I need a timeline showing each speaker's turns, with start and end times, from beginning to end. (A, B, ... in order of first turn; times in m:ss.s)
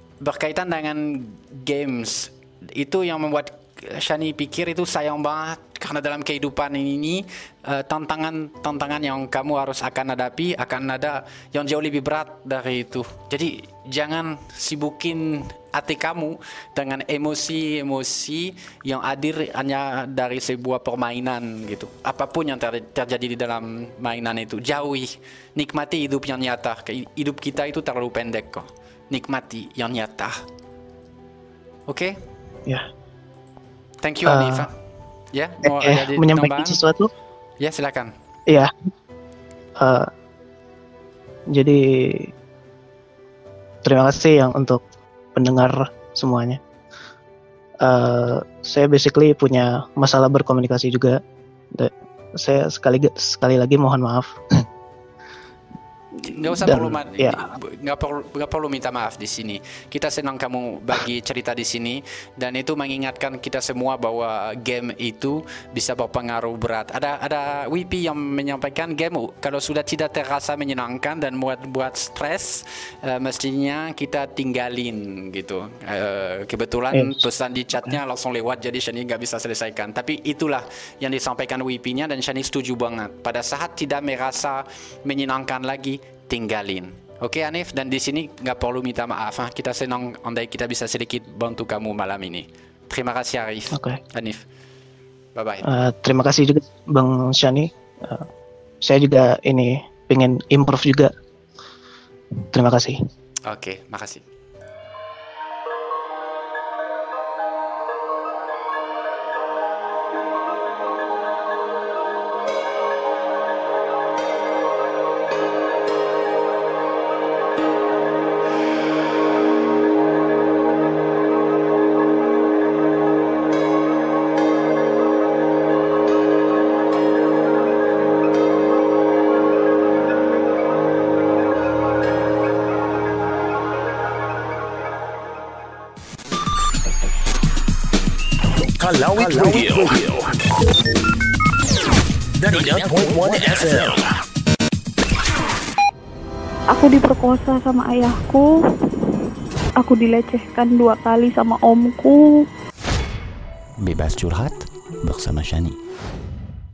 0:00.2-0:30.4 A
0:31.9-0:32.2 A
0:34.0-0:34.7 A
0:34.3-0:34.7 B
0:35.3-0:36.8 A
0:35.6-0:37.1 B
0:37.6-0:38.1 A
0:39.8-0:40.1 B
0:41.5-0:42.3 B
0:43.8-0:44.8 B
0:45.3-0:46.6 B
0:47.8-0:51.2 B
0:51.7-0:54.4 B
0:56.2-1:34.4 A
0:56.3-0:57.4 B
1:16.9-1:17.2 B
1:33.7-1:34.0 B
1:35.3-1:35.6 A
1:35.6-1:38.3 B
1:38.8-1:41.1 B
1:42.5-1:43.0 B
1:43.4-1:44.2 A
2:18.8-2:20.3 C
2:22.4-2:24.1 C
2:26.7-2:28.4 D
2:29.8-2:32.4 D
2:33.8-2:35.8 E